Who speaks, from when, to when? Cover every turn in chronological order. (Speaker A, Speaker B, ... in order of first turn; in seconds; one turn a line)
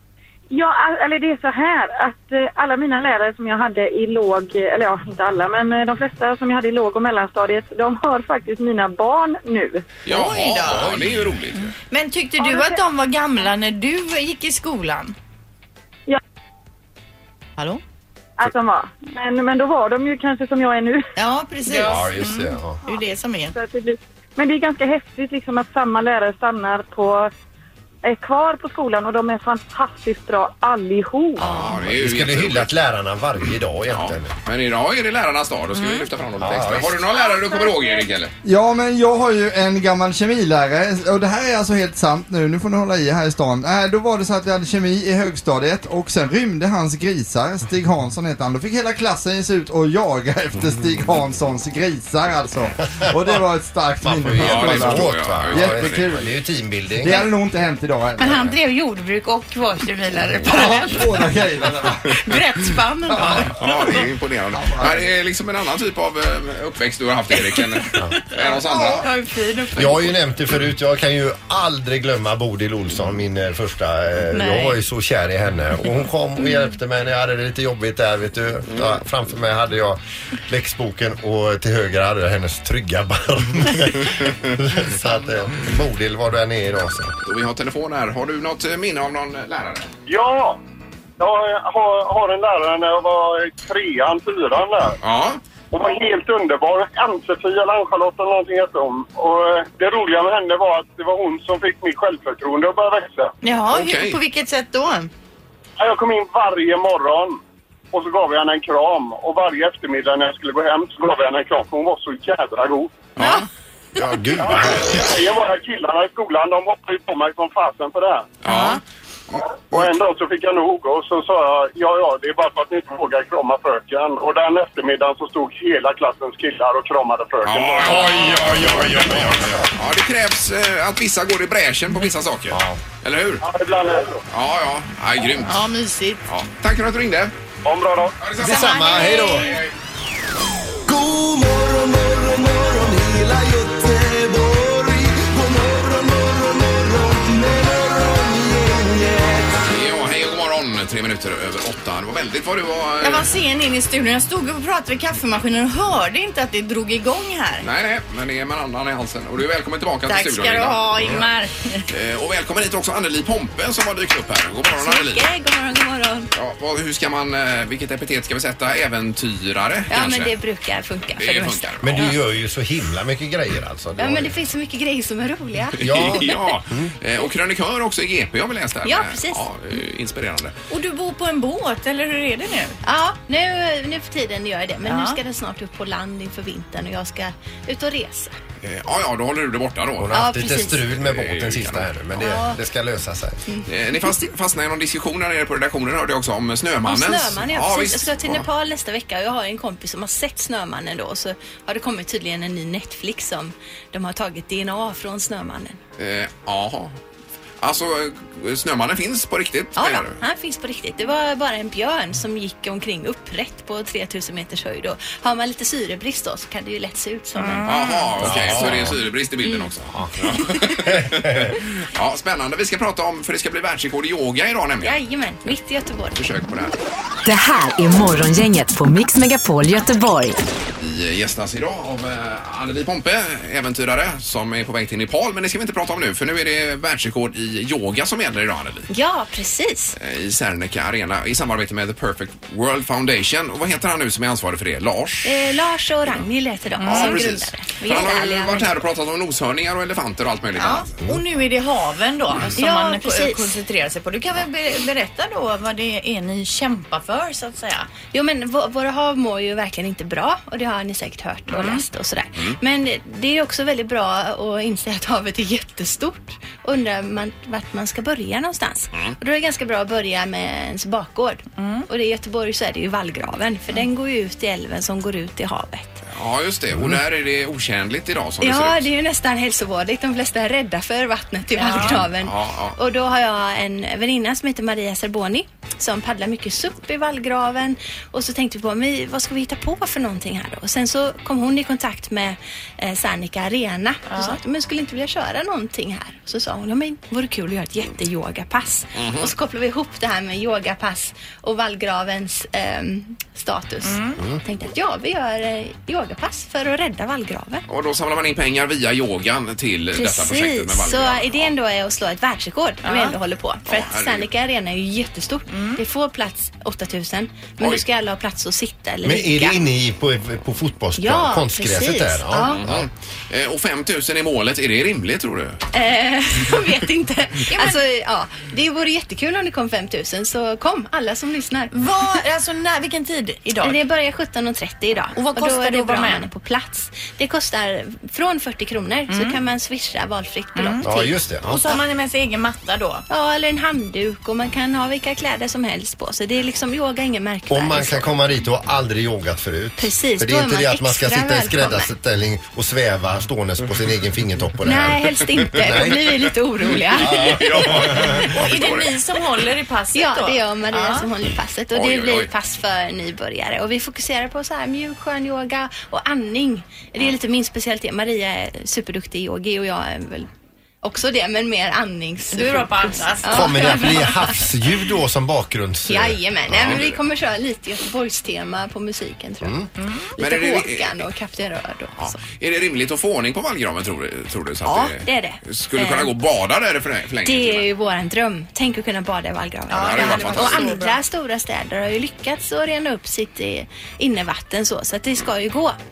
Speaker A: 0.5-9.8
Speaker B: 10.1-11.7
Speaker C: 10.1-10.9
Speaker D: 10.7-11.4
Speaker C: 11.9-15.2
Speaker A: 12.4-12.8
Speaker A: 18.4-21.1
Speaker C: 21.2-23.5
Speaker D: 21.8-22.8
Speaker A: 23.5-27.3
Speaker A: 28.0-31.4
Speaker B: 31.4-32.7
Speaker D: 31.4-34.3
Speaker B: 33.9-38.3
Speaker C: 35.8-36.0
Speaker D: 36.4-37.0
Speaker E: 38.4-56.2
Speaker D: 53.0-53.4
Speaker D: 54.0-57.2
Speaker B: 54.4-56.1
Speaker E: 57.0-58.5
Speaker F: 58.2-60.4
Speaker C: 59.8-61.0
Speaker E: 60.5-62.2
Speaker C: 62.2-63.7
Speaker E: 63.1-63.5
Speaker B: 63.6-69.1
Speaker E: 64.5-65.0
Speaker C: 68.3-70.0
Speaker D: 69.8-87.1
Speaker C: 74.3-74.8
Speaker B: 87.2-89.9
Speaker G: 90.1-90.6
Speaker G: 91.2-95.0
Speaker B: 95.0-95.4
Speaker G: 95.7-103.3
Speaker C: 103.4-105.1
Speaker B: 103.7-104.2
Speaker G: 105.8-107.4
Speaker G: 107.9-113.1
Speaker B: 113.2-113.5
Speaker D: 114.0-115.1
Speaker G: 114.4-118.4
Speaker B: 118.4-118.8
Speaker G: 119.7-128.5
Speaker B: 127.4-133.4
Speaker D: 128.4-129.7
Speaker D: 132.5-132.8
Speaker G: 133.4-134.2
Speaker B: 134.3-135.7
Speaker C: 135.4-136.2
Speaker B: 136.3-137.3
Speaker G: 137.7-138.1
Speaker B: 138.2-139.7
Speaker D: 138.4-139.6
Speaker C: 138.4-139.5
Speaker H: 140.9-149.6
Speaker B: 149.7-153.3
Speaker C: 153.0-157.7
Speaker B: 157.6-161.2
Speaker C: 160.1-161.8
Speaker B: 161.9-165.3
Speaker I: 164.7-166.3
Speaker B: 166.3-170.4
Speaker I: 169.9-172.1
Speaker B: 171.2-172.2
Speaker D: 171.8-174.4
Speaker I: 174.0-176.3
Speaker B: 175.8-180.6
Speaker D: 175.8-176.9
Speaker I: 178.8-179.4
Speaker C: 180.7-182.8
Speaker I: 182.8-188.3
Speaker C: 184.8-185.2
Speaker B: 188.6-190.2
Speaker D: 190.0-193.4
Speaker I: 190.1-190.8
Speaker B: 190.9-191.9
Speaker I: 192.2-192.6
Speaker I: 193.5-194.2
Speaker B: 193.7-198.5
Speaker I: 196.9-205.8
Speaker B: 206.0-207.0
Speaker B: 207.6-210.2
Speaker I: 209.8-217.6
Speaker C: 217.4-218.1
Speaker B: 217.5-225.6
Speaker D: 218.2-219.0
Speaker D: 219.9-221.6
Speaker I: 224.8-226.2
Speaker B: 226.1-226.8
Speaker J: 227.2-230.4
Speaker B: 230.8-238.9
Speaker I: 238.9-240.0
Speaker B: 240.0-245.3
Speaker I: 245.2-248.7
Speaker C: 246.8-247.3
Speaker B: 246.8-250.9
Speaker C: 250.6-257.9
Speaker I: 252.6-253.6
Speaker I: 258.1-276.0
Speaker C: 261.5-261.8
Speaker C: 271.6-271.9
Speaker B: 276.1-278.9
Speaker I: 278.4-307.6
Speaker C: 281.6-282.0
Speaker B: 281.7-282.8
Speaker C: 294.1-294.4
Speaker B: 299.0-299.3
Speaker C: 303.8-304.2
Speaker B: 307.7-311.5
Speaker I: 309.9-319.6
Speaker C: 312.8-313.1
Speaker B: 313.7-314.3
Speaker C: 315.5-315.8
Speaker D: 319.0-322.9
Speaker I: 321.0-322.6
Speaker B: 322.4-325.6
Speaker I: 325.7-332.2
Speaker C: 327.5-327.8
Speaker C: 331.7-333.8
Speaker I: 333.6-341.2
Speaker C: 335.1-336.3
Speaker C: 339.1-339.4
Speaker C: 340.6-340.9
Speaker D: 340.8-341.8
Speaker C: 341.4-343.0
Speaker I: 343.1-348.2
Speaker D: 347.5-356.2
Speaker I: 349.8-351.9
Speaker I: 354.6-358.3
Speaker B: 357.0-359.0
Speaker D: 357.0-358.3
Speaker C: 358.3-361.1
Speaker I: 359.9-370.3
Speaker B: 361.7-362.3
Speaker I: 370.8-374.5
Speaker C: 372.3-374.1
Speaker D: 373.2-376.8
Speaker I: 375.9-379.7
Speaker B: 376.5-377.0
Speaker D: 379.4-379.7
Speaker C: 379.8-380.1
Speaker I: 380.2-382.2
Speaker B: 380.2-381.0
Speaker B: 382.0-387.7
Speaker I: 384.6-386.1
Speaker I: 387.2-395.8
Speaker C: 389.7-391.0
Speaker B: 389.7-390.8